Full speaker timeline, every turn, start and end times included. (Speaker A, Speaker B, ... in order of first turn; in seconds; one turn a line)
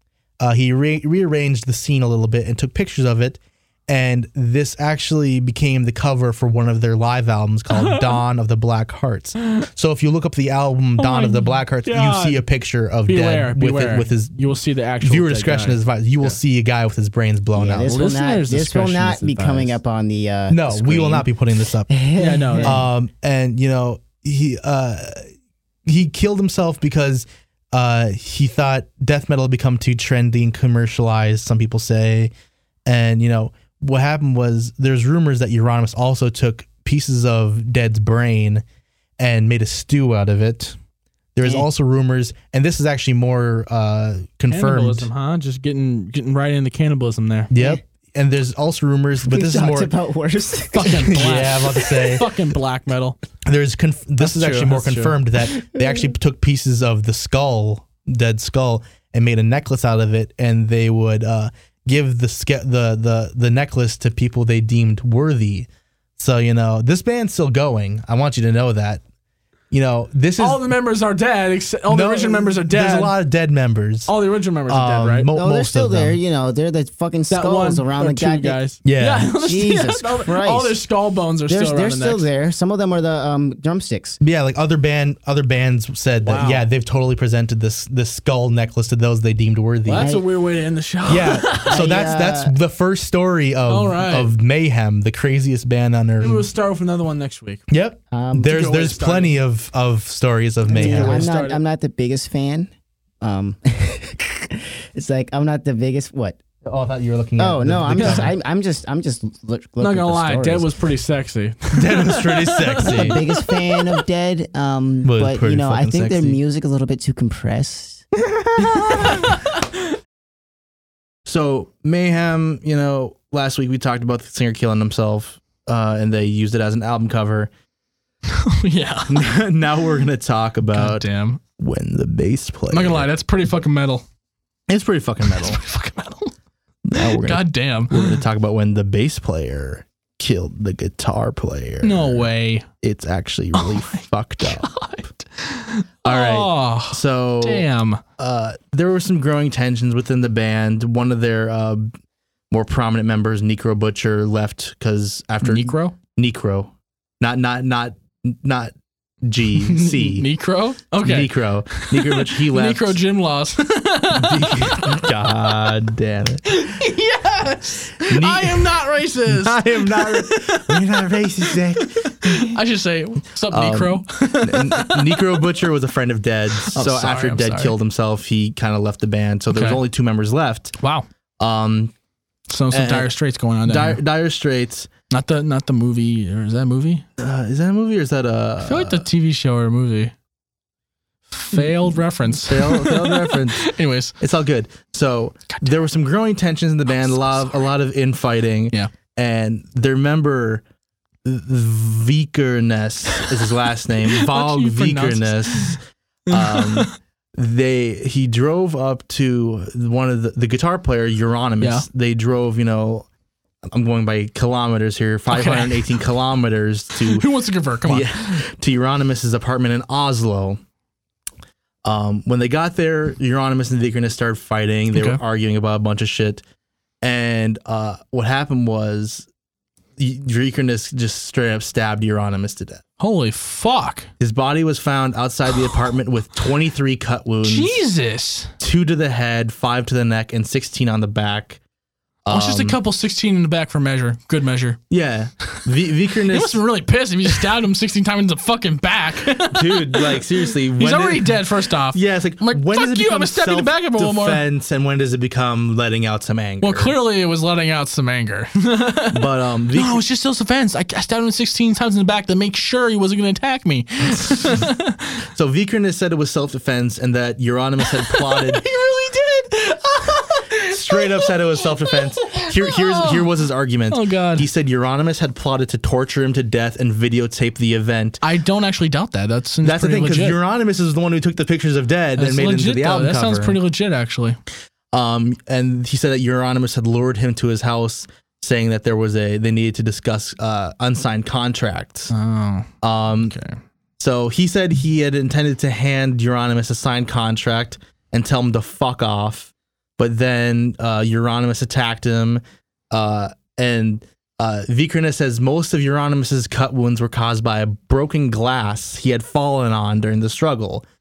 Speaker A: 0.4-14.3
Speaker B: 7.7-8.2
Speaker B: 11.0-12.4
Speaker B: 13.1-16.4
Speaker A: 15.0-18.0
Speaker C: 17.6-21.3
Speaker B: 17.9-19.8
Speaker A: 20.5-21.9
Speaker C: 21.9-22.8
Speaker B: 22.2-22.8
Speaker A: 22.6-25.2
Speaker A: 25.9-32.3
Speaker A: 32.9-38.6
Speaker A: 39.2-40.8
Speaker A: 41.3-45.1
Speaker B: 44.5-47.5
Speaker A: 47.5-49.9
Speaker C: 47.5-47.8
Speaker C: 49.2-51.5
Speaker B: 50.7-53.2
Speaker A: 51.0-52.3
Speaker A: 53.4-69.0
Speaker B: 54.2-55.2
Speaker A: 69.7-70.6
Speaker B: 70.4-73.1
Speaker A: 71.9-74.1
Speaker B: 74.1-75.3
Speaker A: 74.7-76.2
Speaker C: 75.3-78.6
Speaker B: 77.3-82.3
Speaker A: 78.8-79.3
Speaker C: 79.4-80.8
Speaker C: 81.5-84.2
Speaker A: 84.2-90.1
Speaker B: 86.2-86.6
Speaker B: 89.8-91.8
Speaker C: 90.0-90.2
Speaker A: 91.1-96.5
Speaker C: 91.7-92.5
Speaker B: 93.7-94.3
Speaker B: 96.2-97.6
Speaker A: 97.7-101.3
Speaker C: 98.1-98.5
Speaker B: 98.4-99.4
Speaker C: 100.7-102.7
Speaker B: 100.7-101.6
Speaker C: 103.2-106.4
Speaker A: 106.6-108.3
Speaker C: 107.4-110.7
Speaker B: 107.9-108.3
Speaker B: 109.8-114.0
Speaker A: 111.7-113.2
Speaker C: 112.8-119.3
Speaker A: 115.0-116.4
Speaker B: 119.0-119.5
Speaker A: 121.2-127.5
Speaker B: 128.3-129.2
Speaker A: 129.1-131.1
Speaker B: 130.7-131.4
Speaker A: 131.6-133.1
Speaker B: 132.7-134.0
Speaker A: 134.7-135.6
Speaker B: 135.2-136.3
Speaker A: 136.8-142.3
Speaker B: 137.0-138.2
Speaker B: 141.8-142.7
Speaker A: 142.8-144.7
Speaker B: 143.5-148.0
Speaker A: 146.0-147.7
Speaker A: 148.2-151.9
Speaker A: 152.5-160.3
Speaker B: 155.4-155.9
Speaker B: 159.6-165.1
Speaker A: 161.0-163.0
Speaker A: 164.1-166.4
Speaker B: 166.4-170.8
Speaker A: 168.1-168.7
Speaker A: 169.3-172.6
Speaker B: 171.5-175.4
Speaker A: 173.5-180.7
Speaker B: 176.6-177.8
Speaker B: 179.5-179.8
Speaker B: 180.8-181.1
Speaker A: 181.4-181.9
Speaker B: 182.5-184.0
Speaker A: 182.7-183.1
Speaker A: 183.7-184.9
Speaker B: 185.1-187.0
Speaker A: 187.2-189.0
Speaker B: 188.6-190.1
Speaker B: 191.3-194.1
Speaker A: 192.4-193.6
Speaker A: 194.2-200.6
Speaker B: 196.9-197.7
Speaker A: 201.2-213.1
Speaker B: 204.1-206.9
Speaker B: 211.6-211.8
Speaker A: 213.7-217.3
Speaker B: 215.3-215.9
Speaker B: 217.0-218.4
Speaker A: 217.8-220.6
Speaker A: 221.8-226.4
Speaker B: 224.9-225.2
Speaker A: 227.0-229.3
Speaker A: 230.0-232.8
Speaker B: 233.0-234.1
Speaker A: 234.2-237.7
Speaker B: 237.4-238.5
Speaker A: 238.6-241.6
Speaker A: 242.2-242.8
Speaker B: 242.3-244.8
Speaker A: 244.9-246.6
Speaker B: 246.3-254.4
Speaker A: 249.4-251.4
Speaker A: 251.9-256.9
Speaker B: 256.6-265.2
Speaker A: 259.1-260.0
Speaker A: 265.3-268.6
Speaker B: 267.8-273.3
Speaker A: 270.6-278.2
Speaker B: 273.9-274.5
Speaker B: 278.2-280.4
Speaker A: 279.6-283.6
Speaker B: 282.1-284.4
Speaker A: 284.9-292.1
Speaker B: 292.1-292.7
Speaker A: 292.8-293.4
Speaker B: 293.2-293.6
Speaker A: 294.0-310.8